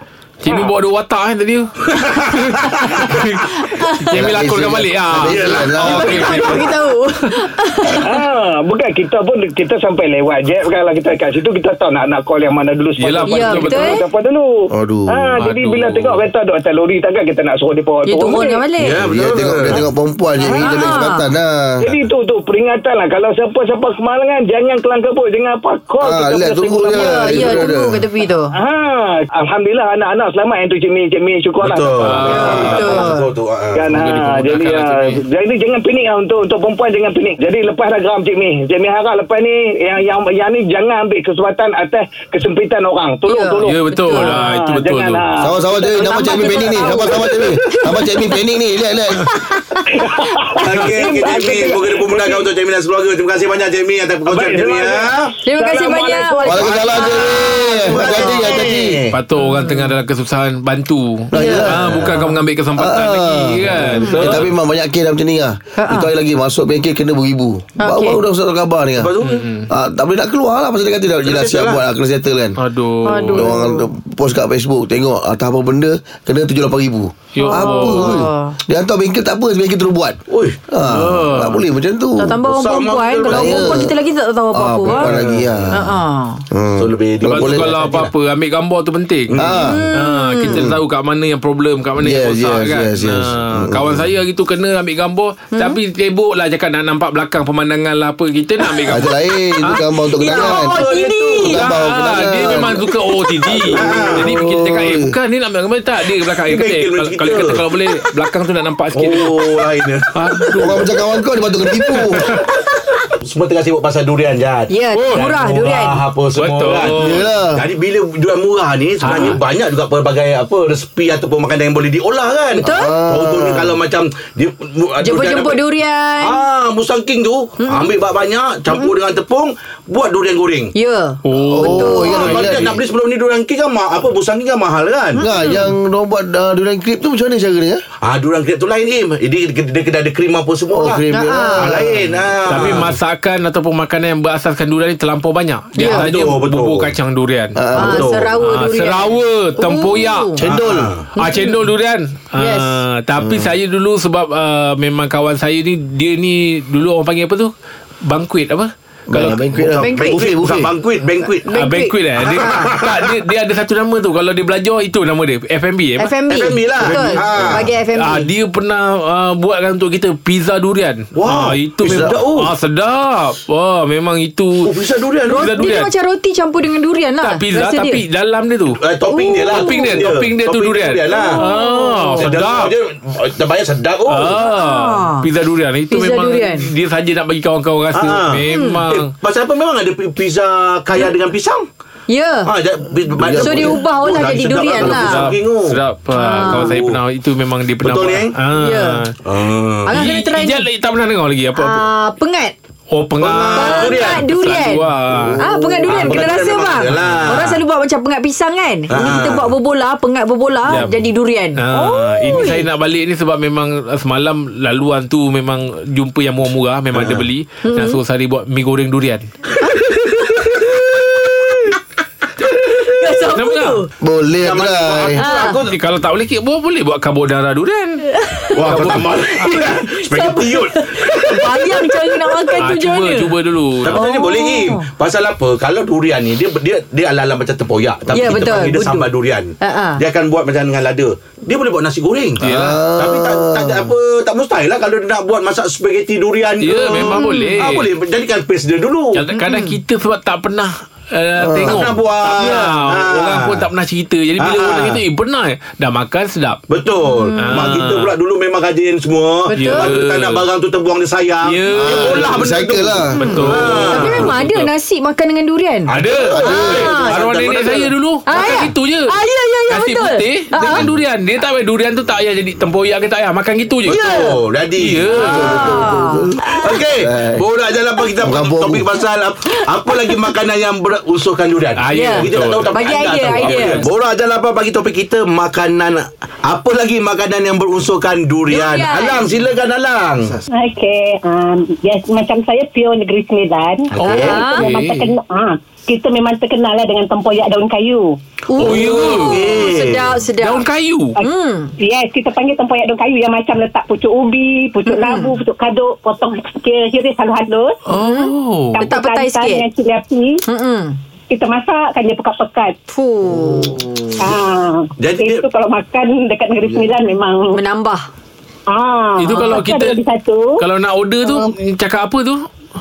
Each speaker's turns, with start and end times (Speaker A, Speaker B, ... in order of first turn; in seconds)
Speaker A: 0.4-6.7, 13.0-14.0, 15.4-16.2, 32.0-33.1, 33.9-35.2, 43.6-45.2, 59.1-64.5, 69.2-69.7, 72.6-73.5, 77.3-78.3, 80.9-81.6, 87.2-99.8, 101.5-109.6, 110.2-110.8, 111.9-112.4, 115.0-115.3, 116.4-117.3, 119.0-119.4, 131.3-132.7, 142.5-147.6, 148.4-150.3, 151.2-157.5, 158.1-159.4, 161.5-166.1, 167.9-174.7, 175.3-175.9, 177.2-178.8, 179.5-182.7, 184.1-189.1, 194.8-199.1, 199.9-201.8, 202.9-205.4, 205.9-206.2, 210.7-211.0, 211.6-219.3, 223.3-223.8, 225.7-228.0, 228.7-229.7, 232.6-234.0, 242.4-242.8, 246.6-247.9, 249.2-256.6, 257.4-258.1, 259.5-260.4, 261.4-262.4, 263.2-264.7, 265.9-269.1, 269.7-274.0, 274.8-275.6, 281.8-283.9, 294.0-295.1, 298.6-299.5, 300.4-301.2, 307.9-308.8, 319.2-320.0, 320.6-322.5
Speaker B: 1.9-3.1, 5.2-6.7, 18.8-19.8, 31.6-33.9, 50.6-55.4, 56.5-59.1, 61.4-62.2, 69.0-69.5, 71.2-71.8, 80.3-80.6, 82.4-83.9, 84.9-85.7, 86.8-88.1, 89.3-89.9, 100.2-101.6, 103.7-104.3, 106.5-107.6, 109.0-110.8, 113.2-130.7, 132.1-135.2, 138.0-141.0, 141.6-142.9, 145.8-146.9, 147.8-148.4, 150.4-151.1, 159.6-161.5, 162.2-163.2, 166.3-167.7, 171.2-172.5, 174.6-175.5, 178.8-181.4, 182.2-184.4, 187.9-191.7, 192.5-195.8, 196.4-197.0, 197.8-198.3, 199.2-199.9, 203.2-204.4, 205.9-207.6, 208.9-209.5, 216.9-217.2, 224.4-225.8, 228.5-232.1, 233.8-249.2, 251.6-253.7, 254.4-255.0, 256.7-264.4, 265.9-268.5, 273.9-275.6, 276.5-290.4, 298.6-300.2, 315.0-315.4
Speaker C: 3.6-4.2, 5.9-8.2, 13.3-14.1, 18.1-19.0, 20.4-21.2, 26.9-28.5, 32.2-33.3, 43.3-44.4, 45.8-48.2, 49.3-49.9, 55.4-58.6, 59.4-60.0, 61.4-61.6, 64.0-64.4, 65.8-66.1, 67.8-68.2, 73.0-73.8, 77.4-78.6, 82.2-85.1, 85.7-86.4, 89.6-90.6, 95.5-95.8, 100.2-101.7, 114.7-116.0, 122.6-123.0, 125.0-126.4, 127.6-127.9, 130.8-132.3, 135.2-135.7, 141.1-141.8, 145.8-146.1, 147.7-150.4, 151.2-151.6, 152.4-152.8, 159.8-160.3, 161.4-162.0, 166.0-168.3, 175.3-178.0, 179.1-180.1, 181.1-182.3, 184.3-185.3, 185.9-186.7, 188.5-188.8, 192.1-192.5, 193.4-195.3, 196.1-196.8, 198.5-199.1, 199.9-200.7, 201.6-202.5, 203.5-212.7, 217.6-218.0, 219.6-220.7, 222.8-223.9, 225.2-225.6, 228.1-228.8, 229.5-234.8, 238.1-240.0, 247.0-247.6, 249.4-249.8, 257.1-257.7, 259.5-259.9, 263.2-267.1, 268.3-270.9, 273.9-274.4, 275.3-276.8, 279.9-280.2, 281.9-283.9, 288.5-289.3, 294.0-294.7, 298.5-301.7, 304.9-305.4, 307.9-309.6, 310.5-311.0, 312.9-313.8, 317.5-318.1
Speaker D: 4.1-6.5, 14.7-15.3, 19.0-21.8, 26.0-28.0, 45.4-49.3, 56.4-59.0, 61.3-62.1, 62.8-69.1, 69.7-72.6, 73.3-82.4, 83.2-83.9, 84.5-85.9, 86.5-88.0, 89.4-89.8, 90.5-90.7, 92.0-94.1, 98.9-100.8, 101.4-105.1, 110.6-112.2, 117.0-117.6, 122.6-123.8, 131.5-132.8, 135.2-137.8, 140.7-142.0, 147.6-148.2, 150.4-150.9, 153.2-153.5, 159.1-160.7, 193.2-193.8, 205.2-206.0, 224.0-225.2, 242.4-243.9, 251.4-251.8, 261.7-263.1, 266.2-266.9, 275.1-277.4, 278.2-278.9, 313.3-314.3, 316.6-316.9
Speaker E: 8.0-18.6, 21.8-27.7, 28.5-32.8, 33.7-47.4, 49.9-52.5, 54.3-55.0, 55.6-56.8
Speaker F: 290.5-298.2, 301.2-307.8, 308.7-310.4, 311.3-312.8, 314.2-317.6, 318.7-320.6